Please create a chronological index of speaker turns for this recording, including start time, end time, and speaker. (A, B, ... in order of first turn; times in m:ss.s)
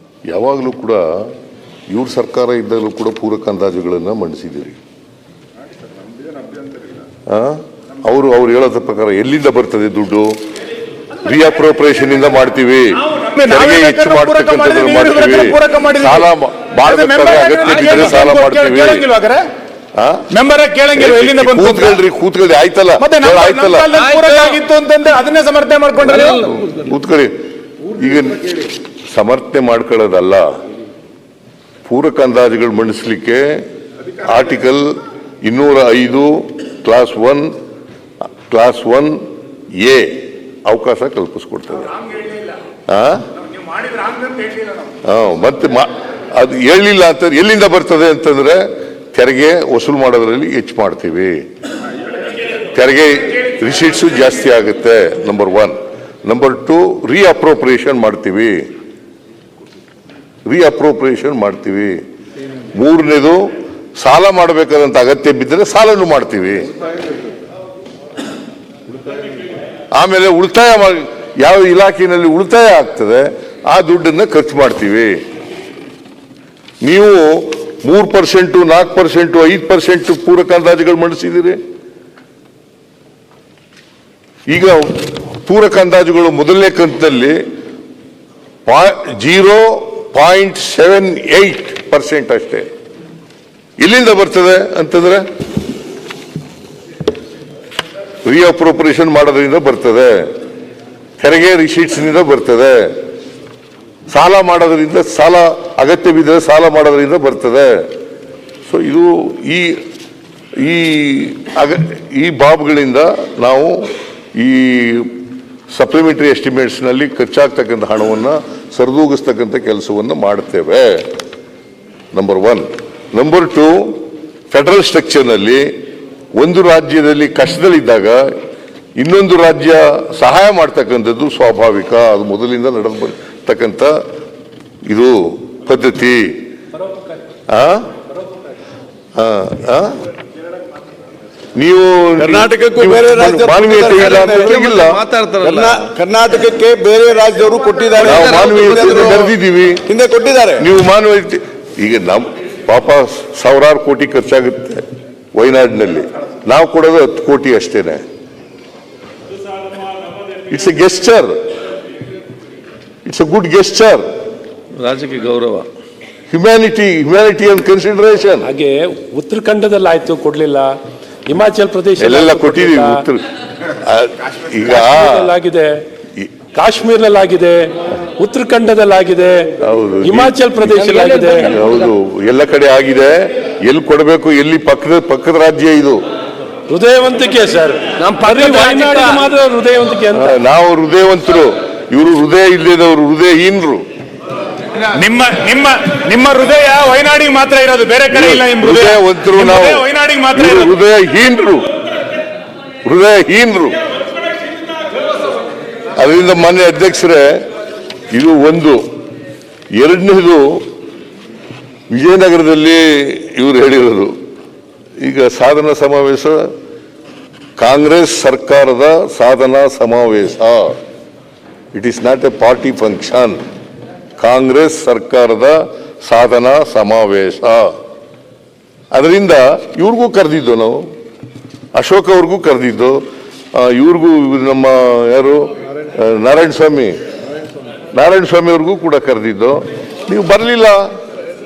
0:00.3-0:01.3 A
0:01.9-0:04.8 A
0:07.3-0:10.4 A
0:11.2-0:19.0 A
0:13.3-0:19.4 B
0:20.0-0:20.3 A
0:20.3-0:22.0 B
0:21.0-0:24.0 A
0:23.0-0:26.2 B
0:23.9-0:24.6 C
0:26.0-0:27.3 A
0:26.1-0:26.9 C
0:27.9-0:30.5 A
0:31.9-0:33.6 A
0:34.2-0:34.9 A
0:35.4-0:37.5 A
0:38.5-0:39.2 A
0:39.8-0:41.9 A
0:42.9-0:43.3 A
0:43.8-0:44.7 B
0:45.0-0:51.4 A
0:52.7-0:58.6 A
1:00.5-1:02.0 A
1:02.8-1:06.7 A
1:10.0-1:15.2 A
1:16.8-1:21.6 A
1:24.5-1:27.4 A
1:28.7-1:32.7 A
1:33.8-1:35.2 A
1:38.3-1:40.3 A
1:41.2-1:42.9 A
1:44.1-1:47.8 A
1:48.7-1:49.8 A
1:50.6-1:53.8 A
1:54.4-1:55.2 A
1:55.8-2:01.0 A
2:02.1-2:03.9 A
2:04.5-2:05.7 A
2:06.4-2:08.2 A
2:09.0-2:14.0 A
2:14.9-2:16.4 A
2:17.5-2:17.9 A
2:19.2-2:20.0 A
2:21.6-2:25.0 A
2:22.2-2:29.3 D
2:24.3-2:25.9 C
2:28.0-2:29.9 A
2:29.8-2:30.6 D
2:30.6-2:38.0 A
2:40.5-2:41.4 A
2:43.0-2:44.0 A
2:44.8-2:45.7 C
2:46.3-2:48.5 A
2:48.4-2:50.8 E
2:51.3-2:53.0 E
2:52.0-2:55.3 A
2:54.7-2:55.8 E
2:56.5-2:59.5 E
2:59.6-3:00.8 A
3:00.0-3:01.6 E
3:00.7-3:01.7 C
3:01.3-3:06.0 A
3:06.7-3:10.3 E
3:08.0-3:09.2 C
3:10.1-3:13.8 A
3:14.8-3:20.7 B
3:18.1-3:21.7 A
3:22.8-3:23.8 A
3:26.0-3:27.4 A
3:28.1-3:28.8 A
3:29.8-3:30.6 A
3:31.9-3:34.1 A
3:35.0-3:36.4 A
3:37.6-3:40.8 A
3:41.7-3:43.4 A
3:44.2-3:47.7 A
3:48.9-3:50.8 A
3:51.8-3:53.0 A
3:53.6-3:57.0 A
3:57.9-4:00.9 A